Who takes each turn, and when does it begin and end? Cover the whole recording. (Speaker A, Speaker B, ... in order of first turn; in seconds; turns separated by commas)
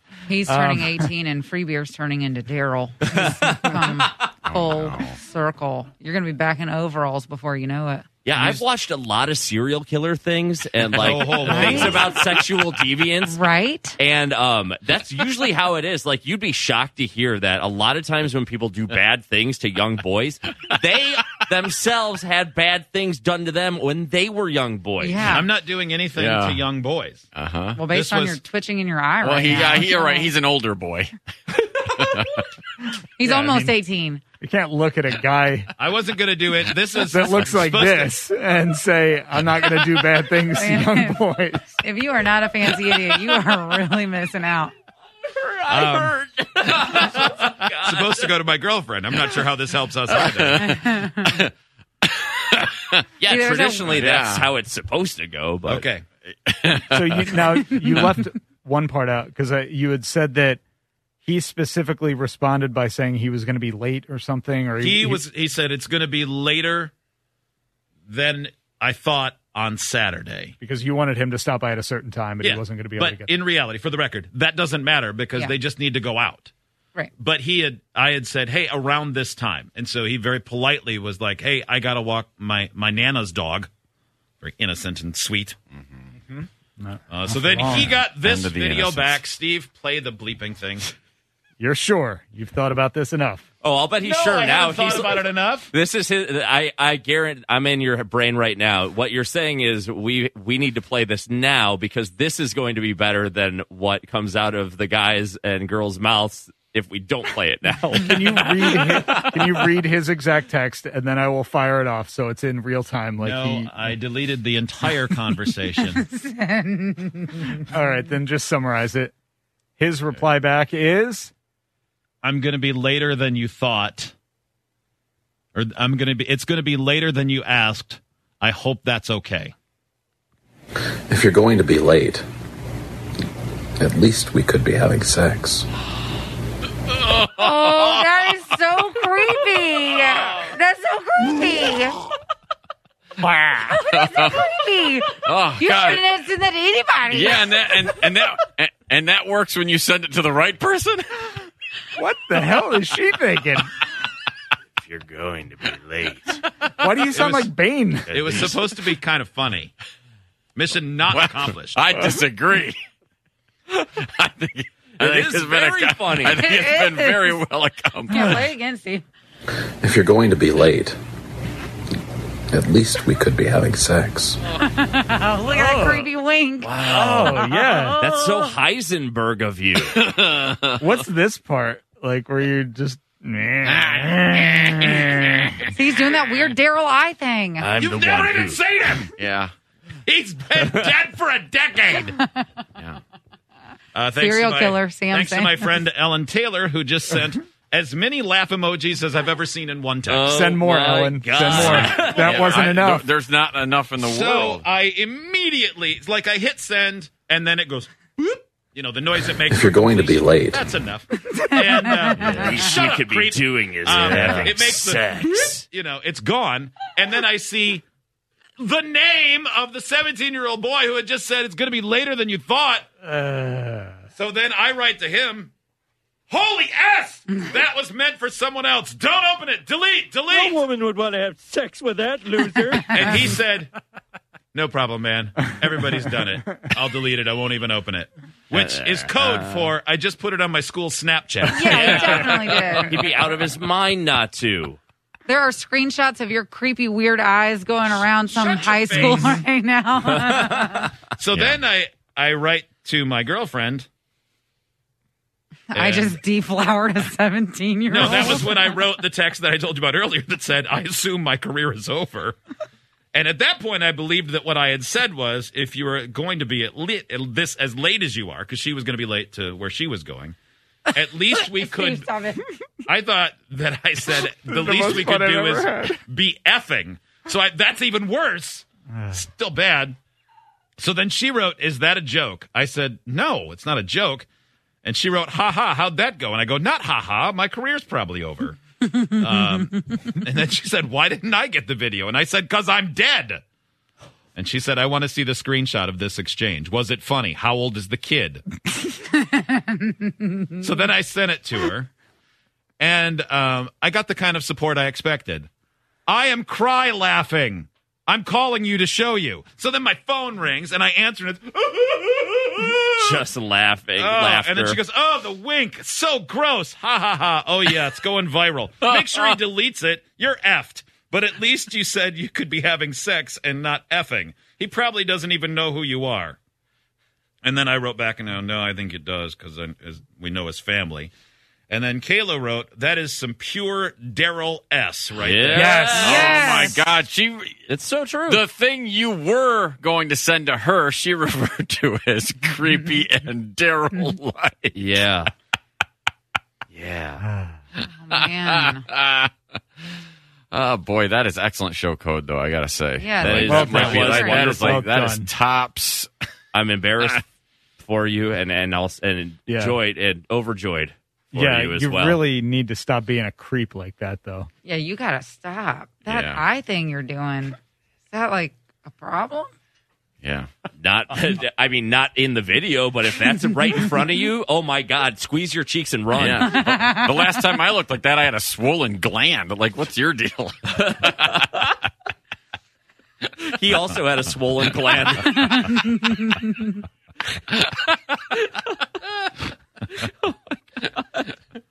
Speaker A: 0.3-8.1, Speaker B: 0.5-1.1, Speaker C: 3.1-3.5, Speaker D: 4.5-5.1, Speaker C: 8.2-13.4, Speaker E: 8.3-8.6, Speaker E: 10.9-12.1, Speaker A: 11.3-12.1, Speaker A: 13.2-14.0, Speaker C: 14.0-25.3, Speaker A: 25.0-25.5, Speaker E: 25.2-27.3, Speaker D: 26.1-26.6, Speaker D: 27.3-27.8, Speaker A: 27.7-30.3, Speaker E: 27.9-28.4, Speaker D: 29.2-31.1, Speaker D: 31.8-32.4, Speaker A: 33.2-34.2, Speaker B: 33.2-33.7, Speaker B: 34.4-35.7, Speaker E: 35.8-38.1, Speaker B: 37.0-41.7, Speaker A: 40.5-44.7, Speaker C: 45.3-48.3, Speaker E: 45.7-46.1, Speaker E: 46.8-50.8, Speaker D: 50.1-51.5, Speaker A: 50.5-51.4, Speaker D: 52.0-53.0, Speaker C: 53.2-55.8, Speaker A: 53.2-54.0, Speaker D: 54.0-54.5, Speaker E: 55.6-56.0, Speaker D: 56.5-58.1, Speaker B: 56.9-60.6, Speaker B: 61.2-65.2, Speaker E: 64.8-66.9, Speaker E: 68.1-70.5, Speaker B: 70.6-73.3, Speaker E: 72.4-76.5, Speaker E: 77.2-83.7, Speaker E: 84.4-85.6, Speaker B: 86.3-88.1, Speaker E: 87.1-90.8, Speaker D: 88.2-89.2, Speaker B: 91.6-93.4, Speaker C: 93.6-109.6, Speaker E: 94.0-95.7, Speaker B: 107.9-113.9, Speaker E: 113.2-116.0, Speaker A: 115.8-117.5, Speaker B: 117.7-119.1, Speaker B: 119.8-121.3, Speaker E: 122.2-124.1, Speaker E: 125.5-129.5, Speaker F: 131.1-132.2, Speaker F: 133.8-135.7, Speaker D: 136.9-138.0, Speaker A: 137.2-142.0, Speaker A: 143.2-147.9, Speaker D: 143.9-144.4, Speaker D: 145.2-146.0, Speaker D: 147.1-151.3, Speaker B: 151.9-153.7, Speaker C: 154.8-156.5, Speaker D: 156.6-157.3, Speaker B: 156.8-158.1, Speaker E: 157.1-157.5, Speaker E: 158.1-159.7, Speaker C: 158.1-158.6, Speaker E: 160.6-161.9, Speaker D: 161.1-162.8, Speaker D: 163.7-168.4, Speaker C: 165.0-166.5, Speaker E: 165.0-165.4, Speaker A: 166.4-167.4, Speaker A: 168.1-169.1, Speaker F: 169.8-171.0, Speaker F: 172.5-174.4, Speaker A: 174.6-176.7, Speaker B: 175.6-176.0, Speaker C: 175.6-176.0, Speaker C: 176.6-180.0, Speaker B: 176.8-178.0, Speaker A: 177.7-178.1, Speaker D: 179.9-180.8, Speaker B: 180.8-185.7, Speaker A: 185.7-187.7, Speaker C: 187.6-188.6, Speaker E: 187.8-189.1, Speaker D: 189.1-189.5, Speaker E: 190.1-192.2, Speaker C: 190.6-190.9, Speaker A: 192.1-192.5, Speaker E: 193.9-200.4, Speaker A: 194.2-195.7, Speaker C: 200.1-202.7, Speaker B: 200.3-203.1, Speaker E: 201.8-202.8, Speaker D: 202.2-204.6, Speaker E: 204.0-217.8, Speaker F: 209.5-210.7, Speaker A: 211.4-212.3, Speaker C: 212.1-215.6, Speaker F: 214.1-214.5, Speaker E: 218.6-222.9, Speaker B: 223.1-224.0, Speaker E: 224.1-225.5, Speaker E: 226.3-230.6, Speaker G: 230.3-233.2, Speaker E: 232.9-233.7, Speaker E: 234.5-242.8, Speaker C: 238.5-239.7, Speaker A: 241.5-243.0, Speaker C: 241.6-244.8, Speaker A: 245.3-250.9, Speaker E: 248.3-249.4, Speaker C: 250.2-250.9, Speaker E: 251.2-253.9, Speaker D: 251.3-251.6, Speaker A: 255.7-258.7, Speaker E: 255.7-256.1, Speaker E: 257.9-262.4, Speaker E: 263.1-270.4, Speaker E: 270.9-272.1, Speaker A: 271.5-272.4, Speaker E: 272.9-280.0, Speaker B: 274.4-276.0, Speaker E: 280.8-284.3, Speaker E: 284.8-293.4, Speaker E: 294.3-298.4, Speaker A: 298.9-300.6, Speaker E: 300.6-301.9, Speaker E: 302.8-305.5, Speaker E: 306.1-313.2, Speaker C: 313.0-314.8, Speaker E: 314.0-326.4, Speaker D: 318.8-319.4, Speaker E: 327.4-331.1, Speaker E: 331.7-336.4, Speaker C: 335.2-336.5, Speaker D: 335.6-337.6, Speaker A: 335.9-336.8, Speaker C: 337.7-338.4, Speaker D: 338.3-344.7, Speaker C: 344.7-345.3, Speaker C: 346.7-347.2, Speaker B: 347.2-347.5, Speaker A: 347.8-348.9, Speaker D: 348.2-349.3, Speaker D: 350.5-356.1, Speaker A: 353.0-354.8, Speaker C: 353.2-354.5, Speaker B: 353.5-355.3, Speaker C: 356.5-357.2, Speaker C: 357.8-362.2, Speaker B: 359.5-359.8, Speaker B: 361.3-364.5, Speaker A: 364.6-367.6, Speaker D: 366.1-366.4, Speaker A: 368.1-369.5, Speaker D: 370.2-370.5, Speaker C: 370.8-376.6, Speaker D: 376.1-381.2, Speaker A: 376.4-377.4, Speaker C: 380.8-381.8, Speaker C: 383.2-385.7, Speaker A: 385.1-386.8